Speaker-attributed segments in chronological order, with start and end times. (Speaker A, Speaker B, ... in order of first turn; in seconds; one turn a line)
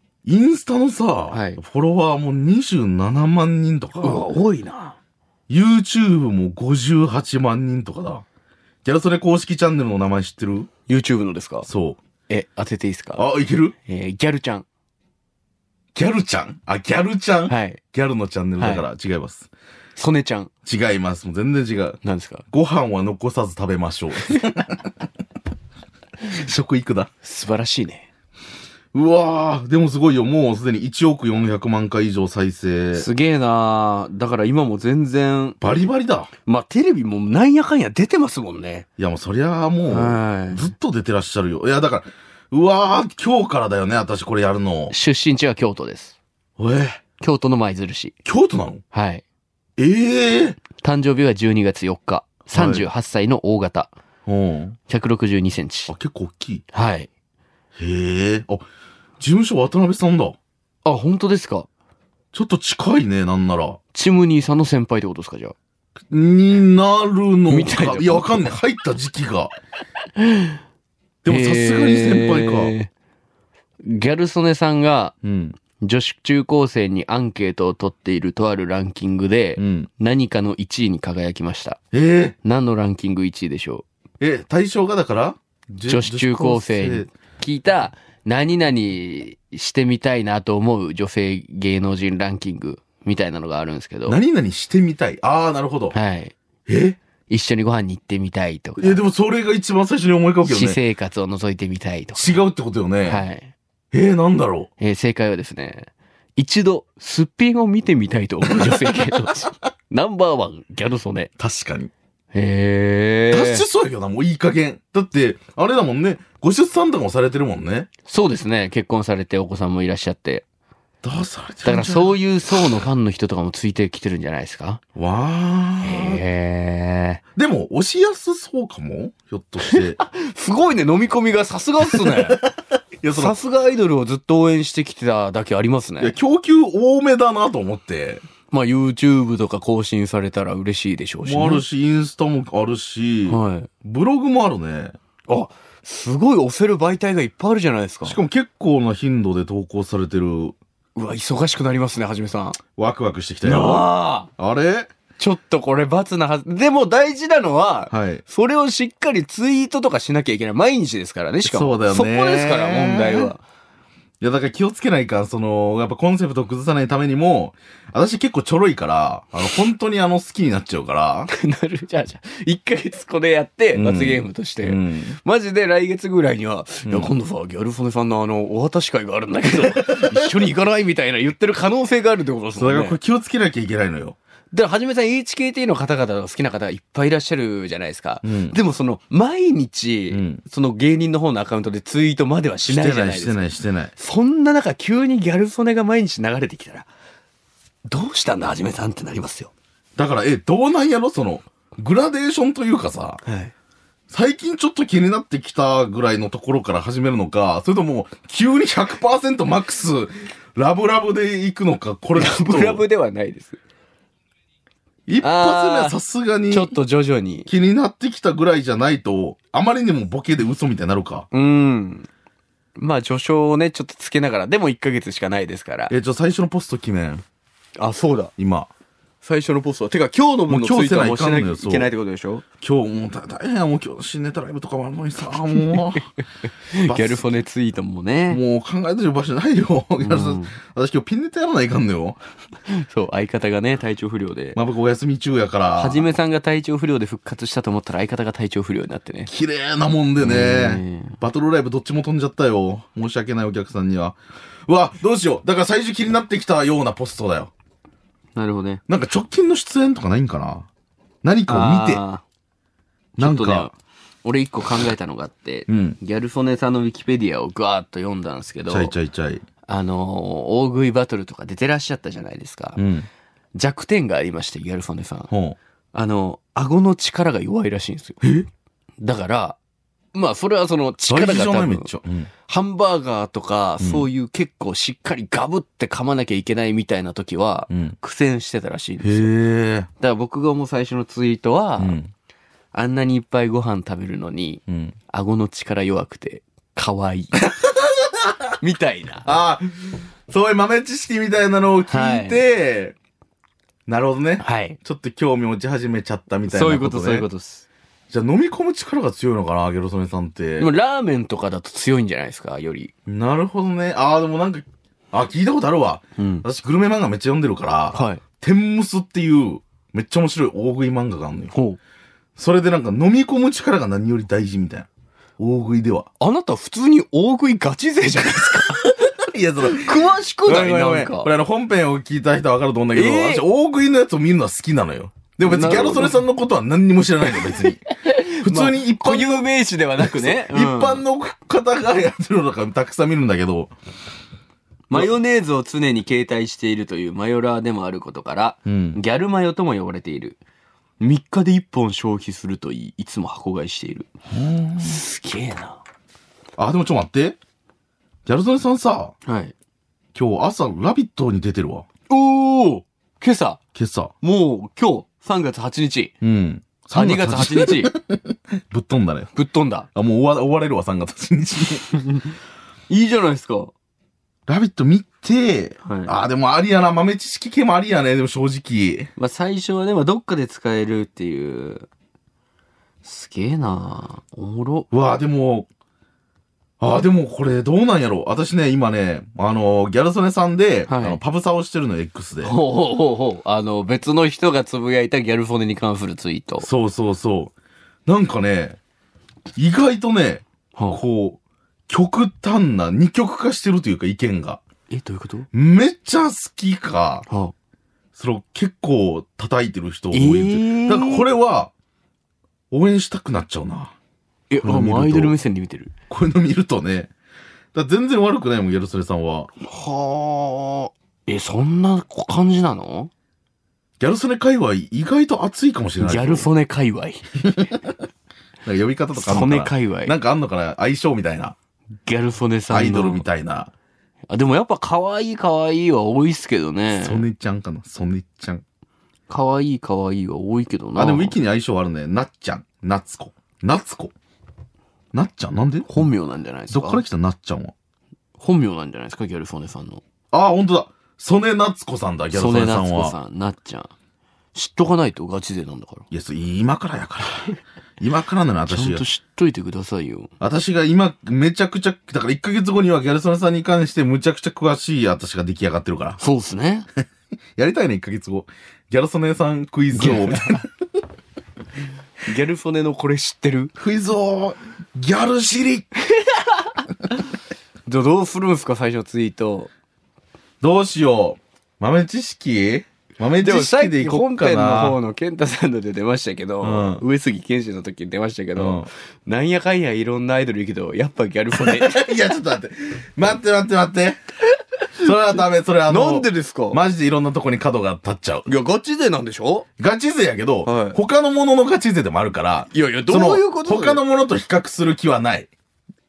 Speaker A: 0.3-4.3
Speaker B: 1.3-1.6
Speaker B: 4.0-5.0
Speaker A: 5.5-8.2
Speaker A: 8.8-10.7
Speaker B: 10.9-11.7
Speaker A: 11.6-12.0
Speaker B: 12.3-13.3
Speaker A: 13.2-13.8
Speaker B: 13.8-14.7
Speaker A: 15.9-19.5
Speaker B: 17.5-17.8
Speaker B: 18.6-18.9
Speaker B: 20.0-20.5
Speaker A: 20.6-22.0
Speaker B: 22.0-22.4
Speaker A: 22.5-24.9
Speaker A: 26.2-27.1
Speaker B: 27.2-28.1
Speaker A: 28.9-33.1
Speaker B: 32.9-35.9
Speaker A: 35.6-36.3
Speaker B: 36.5-38.9
Speaker A: 39.0-44.9
Speaker B: 39.9-40.7
Speaker B: 44.9-46.1
Speaker A: 46.6-47.0
Speaker B: 47.2-48.1
Speaker A: 48.2-48.8
Speaker B: 48.9-49.2
Speaker A: 49.8-50.6
Speaker B: 50.8-53.9
Speaker A: 52.5-52.9
Speaker A: 54.3-54.8
Speaker B: 54.9-55.9
Speaker A: 55.9-56.6
Speaker B: 56.7-57.1
Speaker A: 57.8-58.6
Speaker A: 59.2-60.4
Speaker B: 60.9-61.7
Speaker A: 62.3-63.8
Speaker B: 63.9-65.5
Speaker A: 66.1-69.5
Speaker B: 67.5-68.5
Speaker B: 70.2-70.6
Speaker A: 71.2-72.7
Speaker B: 71.3-72.9
Speaker B: 73.8-75.1
Speaker A: 75.2-75.6
Speaker B: 75.8-81.8
Speaker A: 79.6-79.9
Speaker A: 81.9-82.3
Speaker B: 82.4-83.8
Speaker A: 84.2-87.1
Speaker B: 85.9-94.2
Speaker A: 94.1-96.0
Speaker B: 95.9-96.3
Speaker A: 96.7-97.0
Speaker B: 97.3-99.0
Speaker A: 98.8-100.8
Speaker B: 100.4-102.4
Speaker A: 102.2-103.2
Speaker B: 103.1-103.5
Speaker A: 103.9-104.7
Speaker B: 104.8-111.3
Speaker A: 108.6-108.9
Speaker A: 111.4-111.9
Speaker B: 112.3-113.6
Speaker A: 113.3-117.9
Speaker B: 118.1-120.4
Speaker A: 121.0-122.7
Speaker B: 121.7-124.8
Speaker A: 125.0-126.2
Speaker B: 125.8-127.2
Speaker A: 127.4-130.0
Speaker B: 129.6-132.4
Speaker A: 131.9-132.5
Speaker A: 133.0-133.4
Speaker B: 133.1-136.2
Speaker A: 136.0-138.2
Speaker B: 138.5-141.7
Speaker A: 141.2-145.0
Speaker B: 143.3-143.7
Speaker B: 145.3-148.2
Speaker A: 148.1-150.6
Speaker B: 151.0-152.6
Speaker A: 152.8-154.9
Speaker B: 153.4-154.3
Speaker B: 155.2-163.4
Speaker A: 157.9-158.2
Speaker A: 161.4-163.3
Speaker A: 164.2-171.3
Speaker B: 171.3-183.0
Speaker A: 173.8-175.2
Speaker A: 176.9-177.1
Speaker A: 179.7-180.1
Speaker A: 182.5-184.2
Speaker B: 184.5-196.9
Speaker A: 188.2-188.6
Speaker A: 190.1-190.4
Speaker A: 192.7-193.9
Speaker B: 197.9-199.5
Speaker A: 200.0-203.2
Speaker B: 203.2-203.5
Speaker A: 204.1-212.8
Speaker B: 212.2-213.6
Speaker A: 215.1-216.7
Speaker B: 215.2-217.5
Speaker A: 217.5-221.3
Speaker B: 221.3-222.1
Speaker B: 222.8-225.9
Speaker A: 225.9-227.2
Speaker B: 227.8-228.3
Speaker A: 228.4-228.7
Speaker B: 229.2-232.4
Speaker A: 230.5-231.9
Speaker A: 232.6-236.1
Speaker B: 235.4-236.0
Speaker B: 236.7-238.4
Speaker A: 236.8-237.3
Speaker A: 238.3-242.2
Speaker B: 240.0-240.6
Speaker B: 242.7-244.6
Speaker A: 244.6-246.1
Speaker B: 245.8-249.3
Speaker A: 249.3-257.5
Speaker B: 250.2-251.2
Speaker B: 258.4-258.8
Speaker A: 258.9-260.7
Speaker A: 261.2-262.0
Speaker B: 261.5-262.2
Speaker A: 263.2-263.7
Speaker B: 263.2-268.9
Speaker A: 265.7-266.0
Speaker A: 268.7-269.4
Speaker B: 269.7-272.8
Speaker A: 272.8-273.1
Speaker B: 273.6-275.3
Speaker A: 275.3-275.6
Speaker B: 275.9-278.2
Speaker A: 278.2-278.5
Speaker B: 279.0-279.6
Speaker B: 280.1-281.9
Speaker A: 281.1-282.3
Speaker B: 282.5-289.3
Speaker A: 283.8-284.1
Speaker A: 287.7-288.0
Speaker A: 289.0-289.9
Speaker B: 290.0-292.0
Speaker A: 291.8-292.1
Speaker B: 292.7-297.4
Speaker A: 294.7-294.9
Speaker B: 298.6-299.3
Speaker A: 299.2-303.0
Speaker B: 301.9-302.4
Speaker A: 303.9-307.3
Speaker B: 304.4-304.8
Speaker B: 306.5-307.6
Speaker A: 308.1-310.7
Speaker B: 310.6-312.9
Speaker A: 313.1-321.5
Speaker B: 316.2-316.4
Speaker B: 317.9-318.2
Speaker B: 321.5-321.8
Speaker A: 322.4-326.1
Speaker B: 326.2-328.9
Speaker A: 328.9-337.8
Speaker B: 329.7-331.3
Speaker B: 332.9-333.5
Speaker B: 335.4-336.2
Speaker B: 337.3-341.0
Speaker A: 338.4-339.4
Speaker A: 340.0-343.7
Speaker B: 344.9-350.4
Speaker A: 348.6-349.0
Speaker B: 351.0-354.1
Speaker A: 354.3-355.0
Speaker B: 354.8-355.8
Speaker A: 356.6-357.4
Speaker A: 358.3-359.1
Speaker B: 359.3-359.5
Speaker A: 360.1-361.9
Speaker B: 362.1-363.6
Speaker A: 363.8-364.1
Speaker B: 364.2-366.1
Speaker A: 366.2-369.3
Speaker B: 366.9-367.9
Speaker B: 369.4-369.9
Speaker A: 369.9-371.9
Speaker B: 371.9-372.3
Speaker B: 372.9-373.7
Speaker A: 374.5-379.1
Speaker B: 375.9-376.1
Speaker B: 379.2-381.9
Speaker B: 383.0-384.9
Speaker A: 384.9-385.7
Speaker A: 386.8-392.5
Speaker B: 390.9-391.2
Speaker B: 392.4-396.7
Speaker A: 396.6-397.5
Speaker A: 398.1-398.8
Speaker A: 399.6-404.6
Speaker B: 404.9-405.5
Speaker A: 405.5-407.3
Speaker B: 407.3-407.5
Speaker A: 408.1-411.7
Speaker B: 410.1-411.3
Speaker A: 412.7-413.9
Speaker B: 414.5-415.9
Speaker A: 414.6-415.4
Speaker A: 416.1-417.1
Speaker A: 417.7-419.5
Speaker B: 419.6-423.1
Speaker A: 424.0-426.5
Speaker B: 426.0-427.2
Speaker A: 427.4-427.8
Speaker A: 428.6-431.6
Speaker B: 429.1-430.1
Speaker B: 432.1-433.3
Speaker A: 432.7-433.7
Speaker B: 434.3-437.2
Speaker A: 436.9-438.6
Speaker B: 439.3-441.4
Speaker A: 441.0-444.1
Speaker A: 445.1-445.9
Speaker B: 445.9-447.0
Speaker A: 446.7-447.7
Speaker B: 448.4-450.0
Speaker A: 450.3-453.2
Speaker B: 452.3-453.9
Speaker B: 454.6-456.1
Speaker A: 456.1-459.1
Speaker B: 458.7-460.3
Speaker A: 460.4-466.2
Speaker B: 466.2-466.9
Speaker A: 467.6-470.6
Speaker B: 469.9-470.6
Speaker B: 472.3-473.7
Speaker A: 473.8-475.9
Speaker B: 476.2-476.7
Speaker B: 477.9-479.7
Speaker A: 480.6-485.0
Speaker B: 483.4-492.2
Speaker A: 486.6-487.0
Speaker A: 488.6-488.9
Speaker A: 491.5-494.2
Speaker A: 495.0-498.5
Speaker B: 495.9-496.8
Speaker B: 498.5-499.6
Speaker A: 499.8-505.5
Speaker B: 500.6-501.0
Speaker B: 502.7-504.0